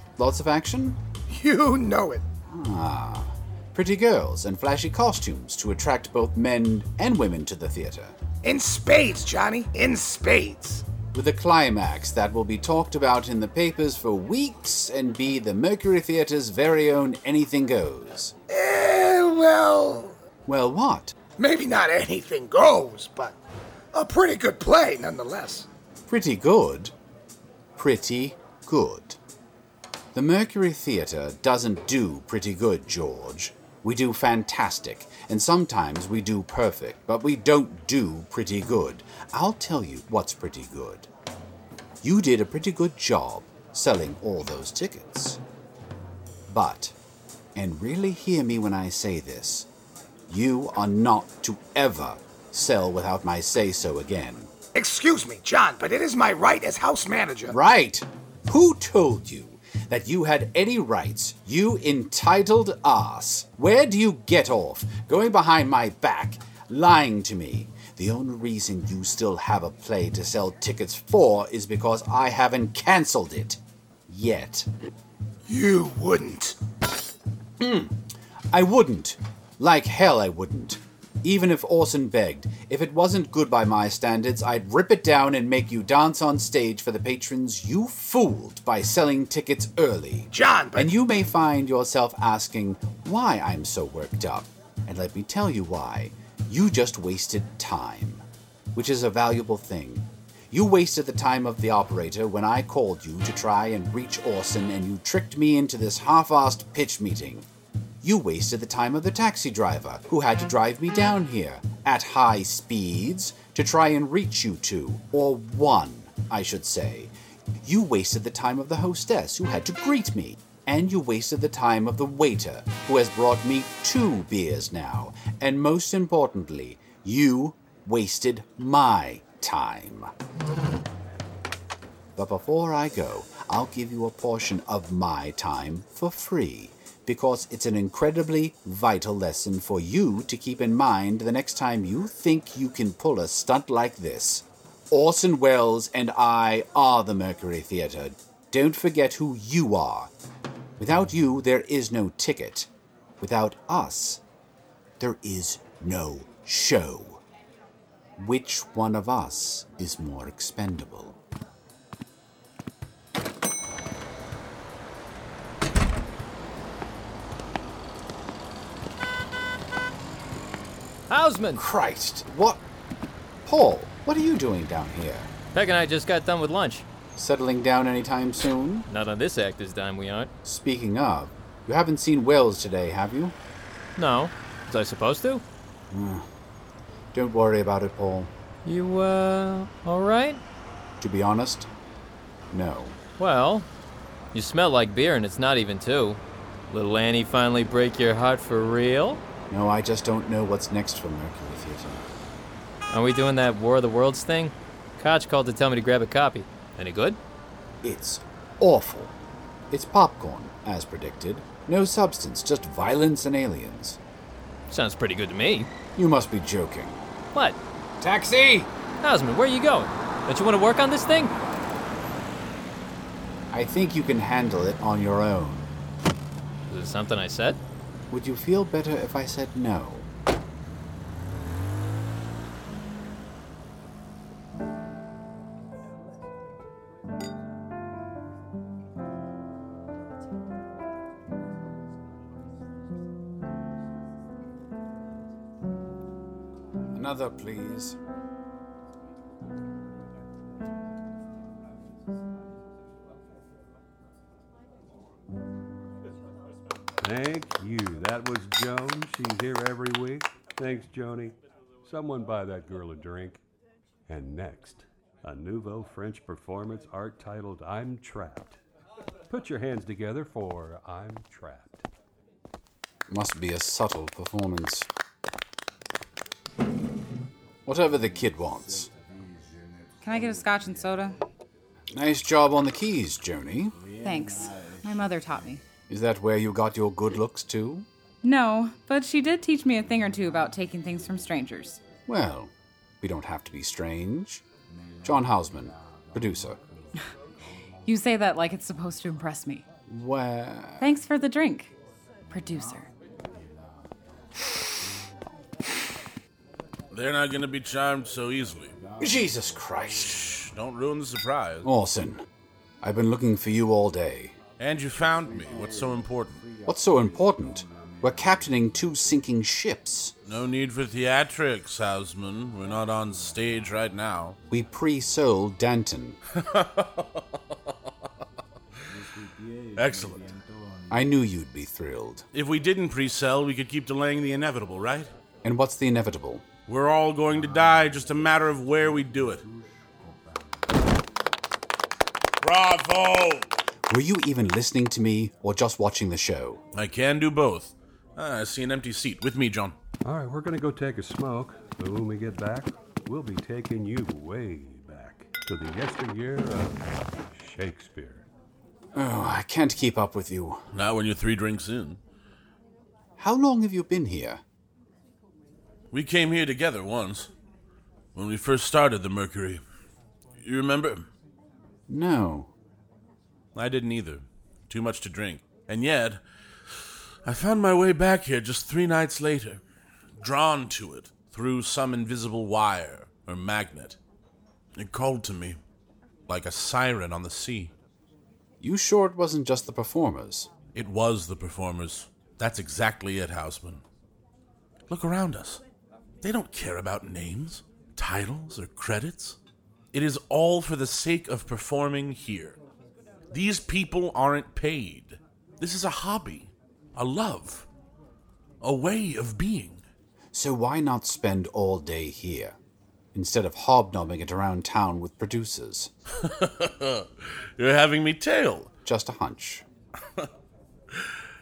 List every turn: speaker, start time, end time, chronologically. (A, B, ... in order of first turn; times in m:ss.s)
0:00.2-0:01.0 A
0:01.3-0:02.2 B
0:02.5-0:08.2 A
0:08.4-0:10.8 B
0:11.1-0:18.4 A
0:18.5-0:20.1 B
0:20.5-0:21.2 A
0:21.4-0:23.4 B
0:23.9-0:25.7 B
0:26.1-0:26.9 A
0:27.8-0:29.2 A
0:30.1-0:41.1 A
0:42.0-0:45.4 A
0:46.5-0:47.0 A
0:47.6-0:49.7 A
0:50.3-0:54.5 A
0:54.8-0:57.6 B
0:57.5-1:14.7 A
1:15.5-1:16.6 B
1:17.6-1:18.0 A
1:18.5-1:38.2 A
1:30.3-1:30.9 B
1:38.8-1:47.5 A
1:48.0-2:10.1 A
2:12.2-2:30.1 A
2:30.8-2:32.7 A
2:33.2-2:34.2 A
2:35.0-2:37.2 A
2:38.2-2:41.2 A
2:51.1-2:51.6 C
2:51.6-2:52.6 A
2:53.5-2:55.3 A
2:55.5-2:56.8 C
2:57.2-2:58.9 A
2:58.9-3:00.3 C
3:00.4-3:03.4 A
3:04.0-3:05.4 C
3:05.9-3:06.2 A
3:07.1-3:08.3 A
3:08.6-3:10.4 C
3:11.0-3:11.7 A
3:12.5-3:13.0 A
3:13.2-3:13.7 C
3:14.3-3:16.2 C
3:16.7-3:19.2 C
3:19.5-3:22.0 A
3:22.9-3:27.2 C
3:27.8-3:29.2 A
3:29.7-3:34.0 A
3:34.7-3:35.7 C
3:36.0-3:37.0 A
3:38.0-3:38.7 A
3:39.0-3:41.3 C
3:43.5-3:45.7 A
3:46.7-3:47.6 C
3:48.1-3:50.1 A
4:06.9-4:08.0 A
4:17.0-4:23.4 D
4:24.1-4:28.6 D
4:29.3-4:31.9 D
4:33.1-4:34.9 A
4:37.7-4:38.9 A
4:40.0-4:41.2 E
4:41.9-4:43.8 A
4:44.0-4:45.6 E
4:45.9-4:47.9 A
4:48.2-4:51.8 E
4:52.1-4:54.4 A
4:55.0-4:56.6 A
4:57.9-4:59.6 E
4:59.9-5:00.9 A
5:00.8-5:01.7 E
5:02.3-5:02.9 E
5:06.9-5:08.8 F
5:09.0-5:10.2 A
5:10.1-5:11.7 F
5:11.6-5:12.2 A
5:12.8-5:14.4 A
5:14.6-5:16.5 F
5:16.6-5:20.1 A
5:20.3-5:24.4 F
5:24.5-5:26.2 A
5:26.4-5:27.3 F
5:29.8-5:30.3 F
5:30.9-5:32.2 A
5:32.3-5:35.1 F
5:35.4-5:36.5 A
5:36.7-5:39.4 F
5:42.4-5:43.5 F
5:43.9-5:46.6 A
5:46.7-5:49.8 F
5:50.0-5:58.3 D
5:59.0-6:00.6 A
6:00.7-6:02.0 F
6:03.2-6:04.4 A
6:05.9-6:07.3 F
6:08.2-6:09.6 F
6:10.4-6:11.1 F
6:11.9-6:12.5 A
6:13.6-6:16.2 F
6:17.3-6:19.6 F
6:20.2-6:24.0 F
6:24.8-6:25.6 F
6:26.3-6:27.7 F
6:28.6-6:30.5 A
6:30.7-6:33.8 F
6:34.9-6:35.6 F
6:36.2-6:39.4 F
6:39.9-6:42.6 F
6:43.3-6:47.7 F
6:48.6-6:49.8 F
6:50.3-6:52.6 A
6:53.1-6:55.9 A
6:56.2-6:58.7 F
6:58.8-6:59.6 A